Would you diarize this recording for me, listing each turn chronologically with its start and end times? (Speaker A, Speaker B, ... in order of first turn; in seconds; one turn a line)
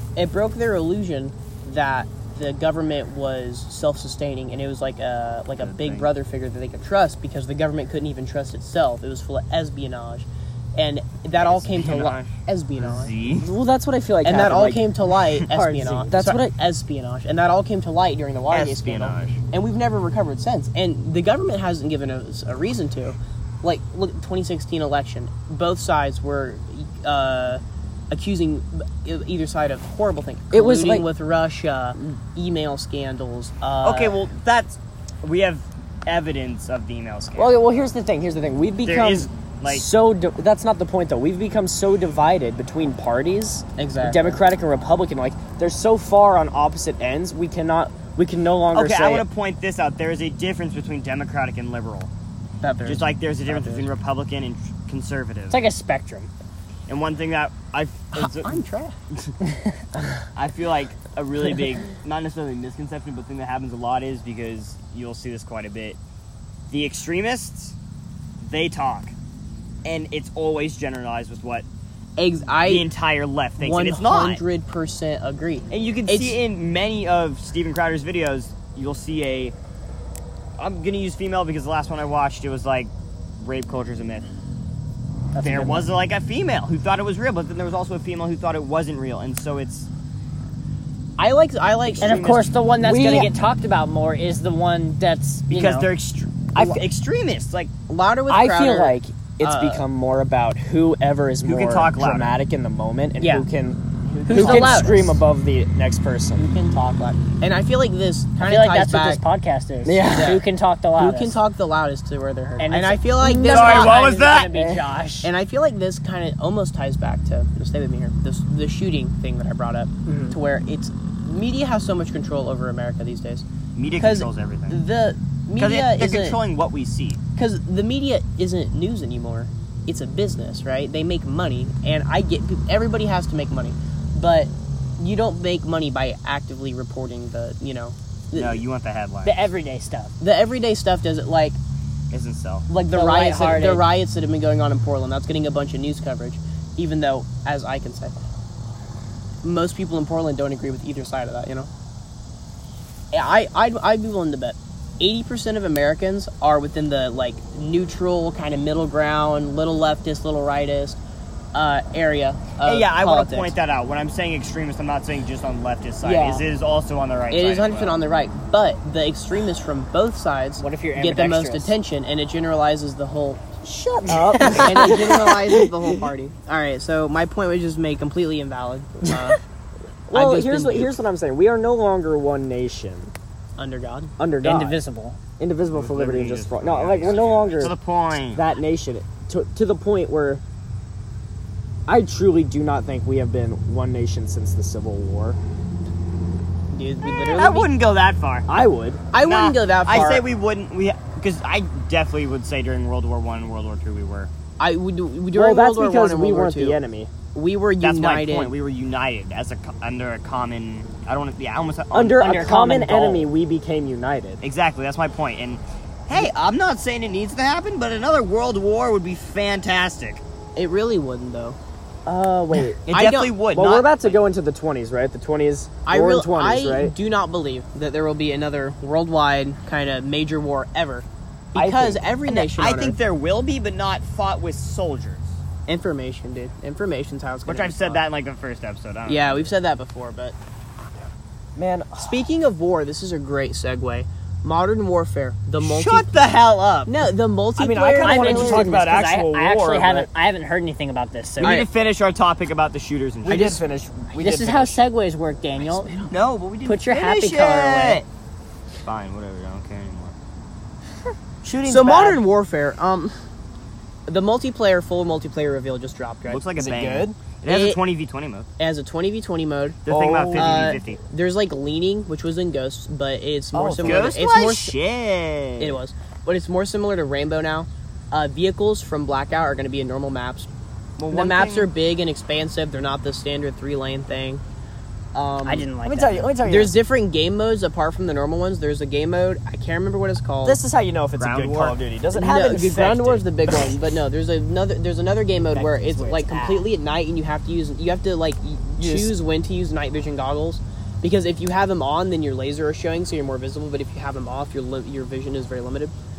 Speaker A: 0.2-13.1
Speaker B: 5.6-6.1
Speaker B: 11.4-13.5
Speaker C: 13.3-14.9
Speaker A: 14.2-34.2
Speaker D: 15.6-16.0
Speaker C: 15.6-16.5
Speaker B: 18.5-19.4
Speaker C: 30.5-31.1
Speaker B: 33.8-37.9
Speaker C: 37.4-49.2
Speaker B: 38.8-39.9
Speaker A: 43.8-44.4
Speaker B: 48.7-52.1
Speaker A: 52.6-53.9
Speaker B: 52.9-55.6
Speaker D: 55.5-56.3
Speaker B: 56.9-58.6
Speaker A: 58.1-59.0
Speaker B: 60.4-66.0
Speaker B: 66.7-67.8
Speaker B: 68.4-69.1
Speaker B: 69.8-71.7
Speaker A: 72.2-72.9
Speaker B: 72.6-74.4
Speaker A: 73.6-76.4
Speaker B: 75.7-79.5
Speaker B: 80.6-84.3
Speaker D: 85.3-85.8
Speaker B: 85.4-89.9
Speaker A: 91.2-92.3
Speaker B: 91.9-92.6
Speaker D: 92.0-95.9
Speaker C: 92.8-93.3
Speaker B: 95.5-97.7
Speaker A: 96.6-96.8
Speaker A: 97.9-99.8
Speaker C: 98.3-106.5
Speaker B: 101.5-102.3
Speaker D: 103.2-103.5
Speaker A: 104.1-105.1
Speaker D: 104.3-105.2
Speaker A: 106.4-109.2
Speaker D: 108.4-111.4
Speaker C: 109.8-110.4
Speaker A: 110.1-114.0
Speaker D: 112.6-115.3
Speaker B: 113.5-114.7
Speaker A: 115.2-123.5
Speaker D: 120.1-120.4
Speaker B: 123.8-124.8
Speaker A: 124.0-126.4
Speaker B: 125.6-127.2
Speaker A: 127.4-138.6
Speaker B: 138.3-139.5
Speaker D: 139.2-140.1
Speaker A: 140.2-141.6
Speaker B: 142.1-142.7
Speaker A: 142.7-148.2
Speaker D: 142.9-143.8
Speaker A: 149.4-151.7
Speaker A: 153.1-161.0
Speaker A: 161.5-163.6
Speaker B: 162.6-168.0
Speaker A: 166.0-166.4
Speaker A: 167.3-173.4
Speaker D: 170.6-171.8
Speaker C: 173.6-175.4
Speaker D: 174.1-175.1
Speaker A: 174.4-179.4
Speaker C: 180.1-183.1
Speaker A: 180.1-181.0
Speaker A: 183.6-184.1
Speaker C: 184.2-184.8
Speaker D: 184.4-185.2
Speaker C: 185.4-187.7
Speaker B: 185.7-188.4
Speaker C: 188.3-190.4
Speaker C: 191.9-195.4
Speaker A: 196.7-197.7
Speaker B: 197.3-198.5
Speaker C: 198.5-199.0
Speaker A: 199.1-200.2
Speaker B: 199.2-204.3
Speaker A: 204.6-206.8
Speaker C: 205.3-207.1
Speaker A: 207.3-208.5
Speaker B: 207.8-212.5
Speaker C: 211.9-214.4
Speaker D: 212.2-213.3
Speaker B: 214.4-220.2
Speaker A: 220.6-221.6
Speaker C: 222.1-222.8
Speaker B: 222.9-224.2
Speaker A: 222.9-223.3
Speaker C: 223.5-226.9
Speaker A: 225.9-233.0
Speaker C: 231.6-232.0
Speaker B: 232.3-235.4
Speaker A: 235.7-238.0
Speaker B: 237.5-239.5
Speaker A: 239.1-240.4
Speaker C: 241.6-242.2
Speaker A: 242.0-246.3
Speaker B: 245.6-246.9
Speaker A: 246.9-248.8
Speaker C: 247.6-250.1
Speaker D: 248.0-251.6
Speaker B: 251.4-253.6
Speaker A: 251.4-251.7
Speaker C: 253.2-254.8
Speaker A: 253.3-253.5
Speaker D: 254.2-256.0
Speaker B: 256.1-258.1
Speaker D: 256.6-258.0
Speaker B: 258.8-260.1
Speaker C: 261.4-262.2
Speaker A: 261.6-263.1
Speaker A: 264.1-266.5
Speaker B: 266.3-268.5
Speaker C: 266.6-267.2
Speaker A: 267.5-267.8
Speaker A: 268.6-269.8
Speaker B: 269.9-271.0
Speaker C: 269.9-270.8
Speaker A: 270.3-274.8
Speaker C: 273.5-274.1
Speaker B: 273.8-275.8
Speaker A: 275.6-280.5
Speaker B: 281.0-281.7
Speaker A: 281.1-284.4
Speaker A: 285.1-285.7
Speaker D: 285.4-286.4
Speaker C: 285.8-286.8
Speaker A: 286.4-290.6
Speaker C: 290.4-293.6
Speaker B: 291.2-291.8
Speaker A: 292.1-305.9
Speaker D: 295.5-296.7
Speaker C: 298.8-299.1